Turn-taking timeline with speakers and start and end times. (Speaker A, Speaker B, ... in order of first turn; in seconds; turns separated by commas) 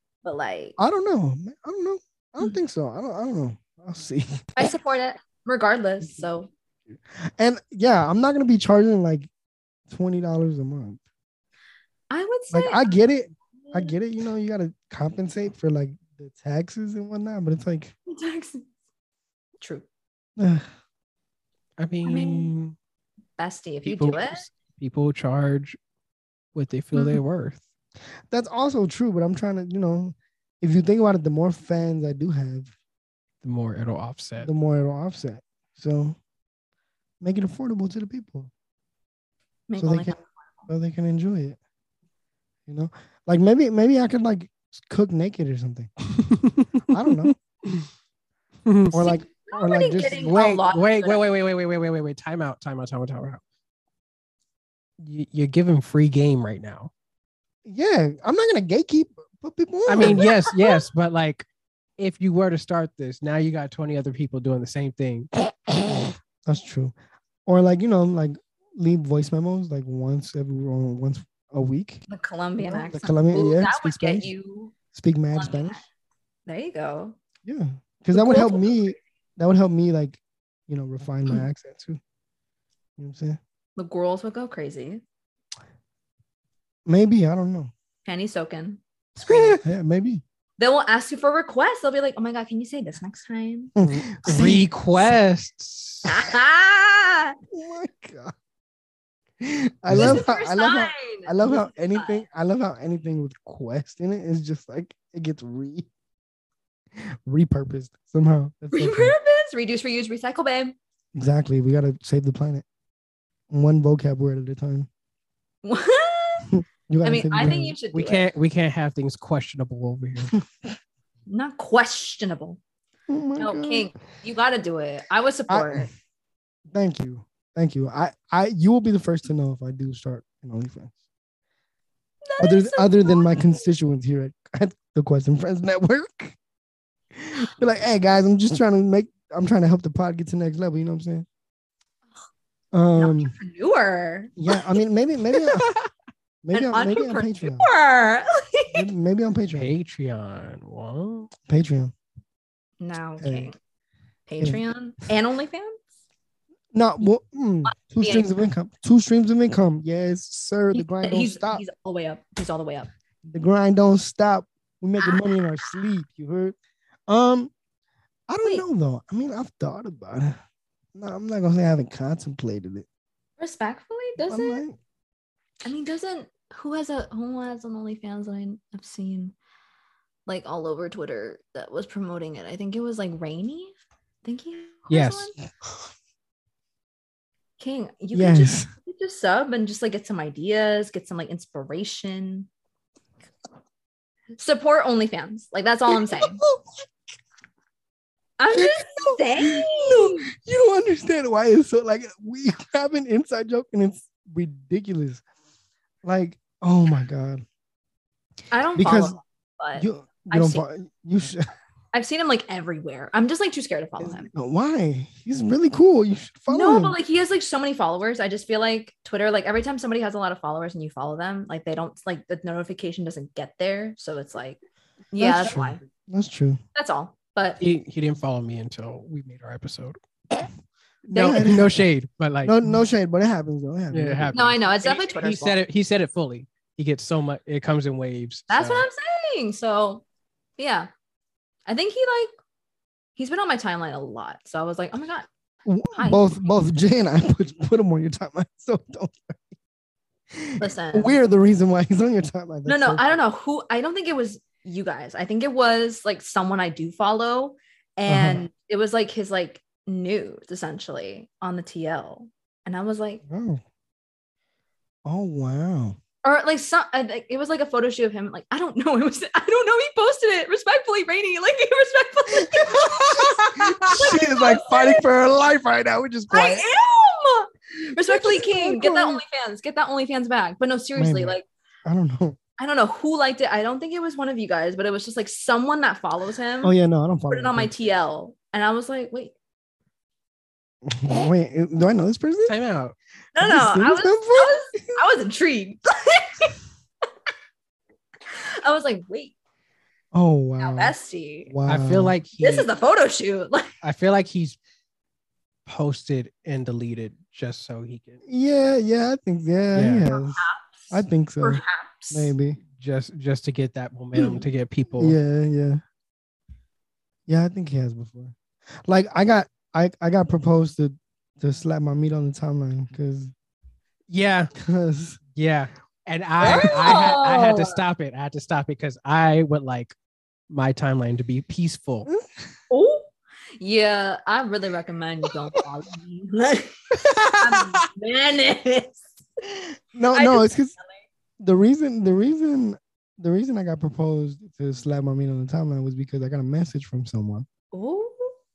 Speaker A: 0.2-0.8, Speaker B: 0.8-4.7, Speaker A: 4.6-6.5, Speaker B: 6.0-6.3, Speaker B: 7.1-9.3, Speaker B: 9.9-11.0, Speaker A: 12.1-12.9, Speaker B: 12.5-17.9, Speaker A: 18.1-18.7, Speaker A: 19.6-19.9, Speaker B: 20.4-20.6, Speaker C: 21.8-22.8, Speaker A: 22.1-22.5, Speaker A: 23.4-24.5, Speaker C: 23.9-25.8, Speaker C: 26.6-27.6, Speaker A: 26.9-27.2, Speaker B: 28.3-32.7, Speaker C: 33.4-34.5, Speaker B: 34.4-36.2, Speaker B: 37.2-38.5, Speaker A: 39.7-40.7, Speaker B: 39.8-41.6, Speaker B: 42.7-45.9, Speaker C: 46.2-47.9, Speaker B: 46.9-47.3, Speaker C: 48.7-49.0, Speaker B: 48.9-50.6, Speaker A: 49.0-51.2, Speaker C: 50.6-53.4, Speaker C: 55.0-56.9, Speaker B: 57.7-60.3, Speaker C: 59.9-61.5, Speaker A: 60.0-60.8, Speaker C: 62.0-65.3, Speaker B: 66.5-66.9, Speaker B: 67.5-72.0, Speaker A: 72.1-74.7, Speaker B: 72.6-74.3, Speaker B: 74.9-75.8, Speaker A: 75.3-75.8, Speaker A: 76.5-77.2, Speaker B: 77.4-82.0, Speaker A: 78.1-79.0, Speaker B: 83.0-83.4, Speaker A: 83.8-85.0, Speaker B: 86.9-87.7, Speaker A: 88.1-89.6, Speaker C: 89.3-89.6, Speaker B: 89.3-90.2, Speaker A: 90.6-93.7, Speaker B: 93.8-94.7, Speaker C: 93.9-96.1, Speaker A: 96.0-97.4, Speaker B: 97.5-98.3, Speaker B: 99.4-105.9, Speaker C: 99.9-100.2, Speaker A: 99.9-102.2, Speaker B: 107.0-109.2, Speaker A: 108.7-110.8, Speaker B: 111.2-112.7, Speaker B: 113.5-114.9, Speaker A: 115.6-116.5, Speaker B: 116.5-117.8, Speaker A: 117.0-118.3, Speaker C: 117.5-120.4, Speaker A: 121.3-122.6, Speaker B: 123.1-123.9, Speaker A: 123.4-125.9, Speaker B: 125.5-125.9, Speaker B: 126.7-130.9, Speaker A: 132.2-133.7, Speaker B: 132.4-136.4, Speaker B: 137.1-141.3, Speaker B: 142.7-143.3, Speaker A: 142.9-144.6, Speaker B: 144.4-145.7, Speaker C: 145.3-145.9, Speaker B: 146.4-147.7, Speaker A: 146.5-148.8, Speaker B: 148.7-149.7, Speaker C: 149.6-151.3, Speaker B: 151.5-151.9, Speaker A: 152.8-153.6, Speaker B: 153.2-153.5, Speaker A: 154.3-155.8, Speaker B: 156.7-161.6, Speaker A: 157.7-158.4, Speaker A: 160.7-162.9, Speaker B: 163.2-166.6, Speaker A: 165.0-165.3, Speaker B: 167.1-167.5, Speaker B: 168.3-170.4, Speaker B: 170.9-172.9, Speaker A: 173.4-174.6, Speaker B: 174.3-174.8, Speaker A: 175.7-179.3, Speaker A: 180.3-185.3, Speaker C: 184.9-185.3, Speaker A: 187.6-192.5, Speaker B: 188.1-188.7, Speaker A: 194.4-196.4, Speaker B: 195.9-196.8, Speaker A: 198.4-200.3, Speaker B: 198.5-205.2, Speaker B: 206.0-207.4, Speaker A: 208.5-210.6, Speaker B: 208.8-209.2, Speaker B: 209.8-211.4, Speaker A: 211.9-214.3, Speaker B: 214.0-217.0, Speaker A: 216.5-224.6, Speaker A: 225.1-225.8, Speaker B: 225.2-226.6, Speaker A: 226.8-227.6, Speaker C: 227.6-230.0, Speaker B: 231.1-231.7, Speaker A: 231.1-231.6, Speaker C: 231.1-232.7, Speaker B: 232.4-234.3, Speaker C: 233.9-238.9, Speaker A: 234.3-235.6, Speaker A: 238.5-240.0, Speaker A: 240.6-240.9, Speaker A: 241.7-242.3, Speaker A: 243.2-245.3, Speaker B: 245.7-249.4, Speaker A: 245.9-246.2, Speaker B: 250.3-253.2, Speaker A: 250.6-251.2, Speaker A: 252.7-263.2, Speaker B: 258.1-258.4, Speaker B: 263.3-263.6, Speaker B: 265.1-266.0, Speaker A: 266.2-275.1, Speaker B: 272.5-276.6, Speaker A: 276.3-281.4, Speaker B: 278.1-279.2, Speaker B: 280.9-282.4, Speaker A: 282.6-286.8, Speaker B: 286.6-287.7, Speaker A: 287.3-289.4, Speaker B: 290.9-292.6, Speaker C: 292.5-293.0, Speaker A: 293.4-296.6, Speaker B: 293.4-295.0, Speaker A: 298.3-299.4, Speaker B: 300.1-300.9, Speaker A: 300.6-301.5, Speaker B: 301.5-302.2, Speaker C: 301.7-302.7, Speaker A: 302.4-303.7, Speaker C: 303.8-304.6, Speaker C: 305.7-308.2, Speaker B: 308.3-312.6, Speaker C: 309.7-310.0, Speaker A: 310.1-312.3, Speaker C: 312.8-315.2, Speaker B: 315.0-315.8, Speaker B: 317.3-323.3, Speaker C: 324.1-324.5, Speaker B: 324.6-325.2, Speaker C: 325.3-329.9, Speaker A: 326.4-327.8, Speaker B: 326.5-327.1, Speaker C: 330.5-332.1, Speaker B: 332.1-332.4, Speaker A: 332.7-333.1, Speaker A: 333.6-336.8, Speaker C: 336.9-337.8, Speaker A: 337.4-339.1, Speaker B: 339.9-340.8, Speaker A: 340.1-341.0, Speaker B: 341.4-347.5, Speaker A: 347.7-348.3